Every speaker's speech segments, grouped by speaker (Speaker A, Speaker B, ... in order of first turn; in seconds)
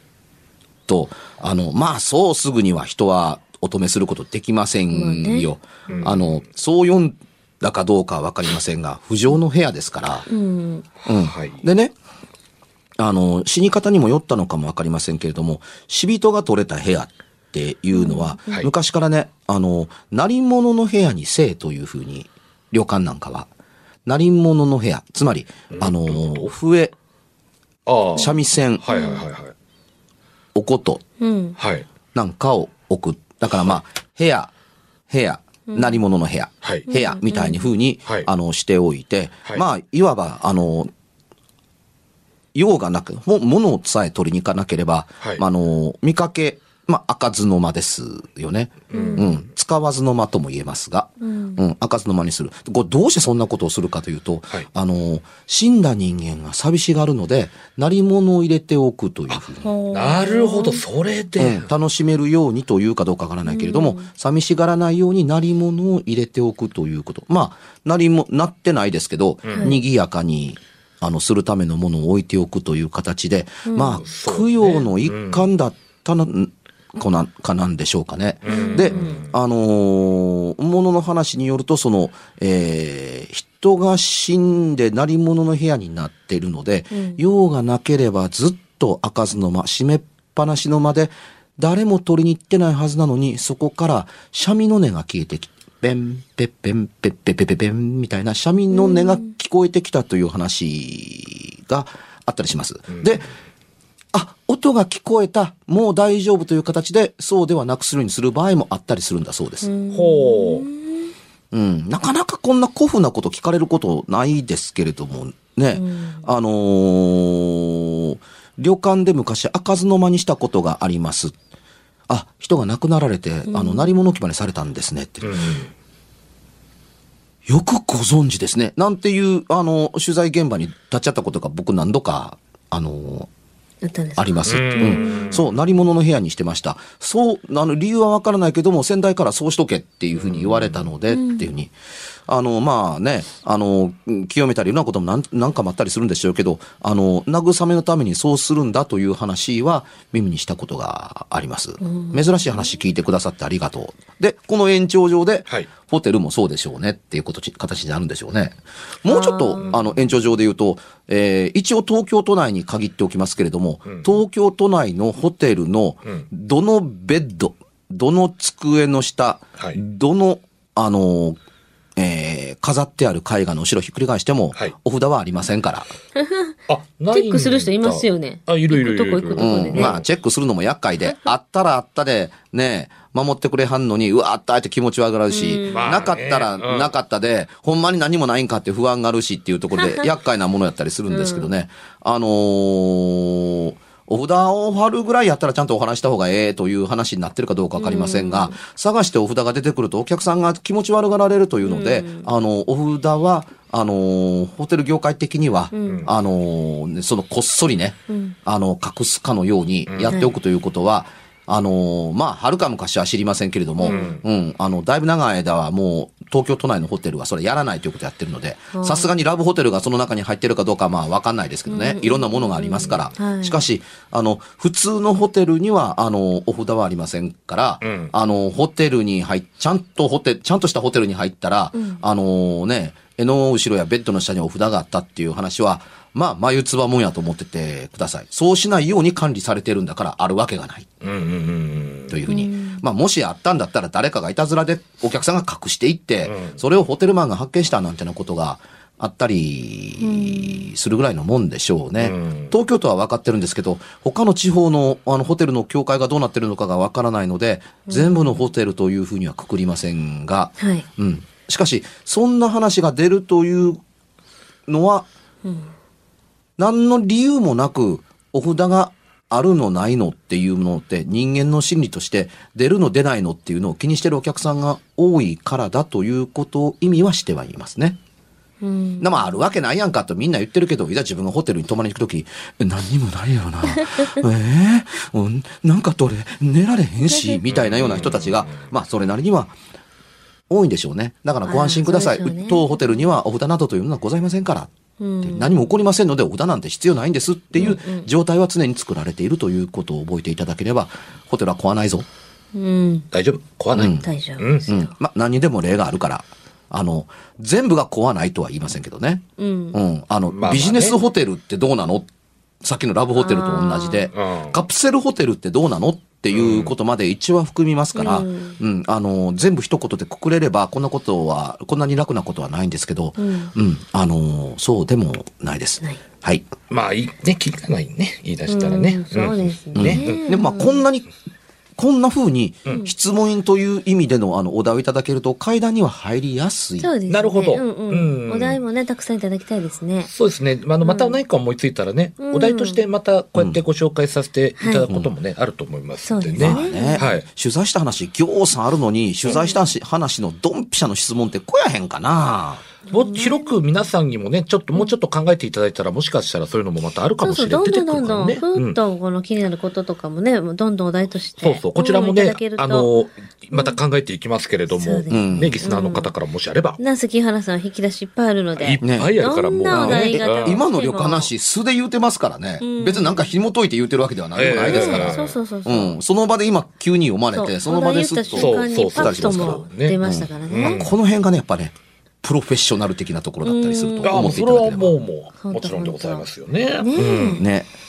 Speaker A: 0.9-10.3, 11.1-11.9, 13.0-23.5, 24.1-26.9, 28.1-28.8, 30.5-31.0, 32.1-34.5, 35.1-40.9, 42.5-59.7, 61.4-103.3, 104.1-109.7, 111.5-121.3, 122.1-125.4, 127.5-133.3, 134.2-141.7, 142.3-171.4, 171.9-175.9, 179.3-240.9, 242.1-263.8, 264.7-265.1, 266.6-278.0, 279.0-289.6, 290.5-294.7, 295.2-302.1, 303.7-304.1, 304.7-312.1, 312.6-326.5, 329.7-331.1, 331.8-336.9, 343.4-343.6, 346.4-352.6, 365.1-365.7, 368.8-369.1, 369.7-385.0, 387.4-387.7
Speaker B: 4.9-6.1, 10.3-10.8, 17.9-18.5, 28.9-29.2, 31.2-31.6, 35.7-36.0, 36.9-37.7, 48.9-49.3, 51.2-51.6, 59.6-60.8, 63.4-64.1, 69.5-69.8, 73.7-74.0, 78.5-79.2, 86.9-87.2, 98.7-99.3, 109.6-111.1, 115.7-116.3, 123.5-124.0, 133.8-135.4, 141.1-141.5, 151.8-152.2, 159.1-159.8, 176.2-176.5, 177.1-180.0, 185.3-186.0, 189.8-190.1, 191.1-191.5, 197.8-198.6, 201.6-202.3, 205.7-206.1, 208.1-208.3, 213.8-214.1, 218.7-219.1, 221.7-223.6, 231.7-232.0, 242.3-242.8, 250.0-250.7, 257.9-258.4, 260.6-260.9, 265.4-265.7, 278.6-279.5, 283.9-284.1, 287.1-287.4, 291.4-292.8, 295.0-295.5, 297.6-298.1, 302.5-303.1, 303.9-304.9, 309.4-309.8, 313.1-314.1, 317.9-318.6, 323.2-323.5, 328.5-330.8, 336.8-340.1, 340.8-341.2, 342.2-342.8, 344.6-344.9, 346.0-347.1, 349.2-349.6, 352.9-353.5, 357.2-362.9, 364.7-366.1, 366.8-371.3, 372.6-373.3, 374.6-375.9, 377.3-380.9, 383.4-384.3, 385.4-386.2, 386.8-387.4
Speaker C: 5.9-6.3, 11.1-11.6, 25.7-26.5, 27.9-29.5, 31.6-31.9, 48.9-49.3, 59.9-61.7, 69.4-69.8, 74.0-75.5, 78.4-79.3, 109.9-110.7, 125.2-125.7, 134.4-135.6, 140.2-140.9, 163.9-164.2, 176.7-180.0, 185.7-186.9, 209.9-210.2, 213.8-214.2, 227.8-228.1, 241.0-242.2, 246.2-246.6, 252.0-252.5, 287.4-288.7, 303.1-304.7, 310.3-311.0, 314.1-314.6, 316.3-316.7, 326.7-330.2, 337.1-338.6, 340.1-347.2, 352.9-358.8, 361.4-366.8, 368.6-370.6, 374.3-375.4, 378.3-380.0, 380.5-380.9, 384.0-387.4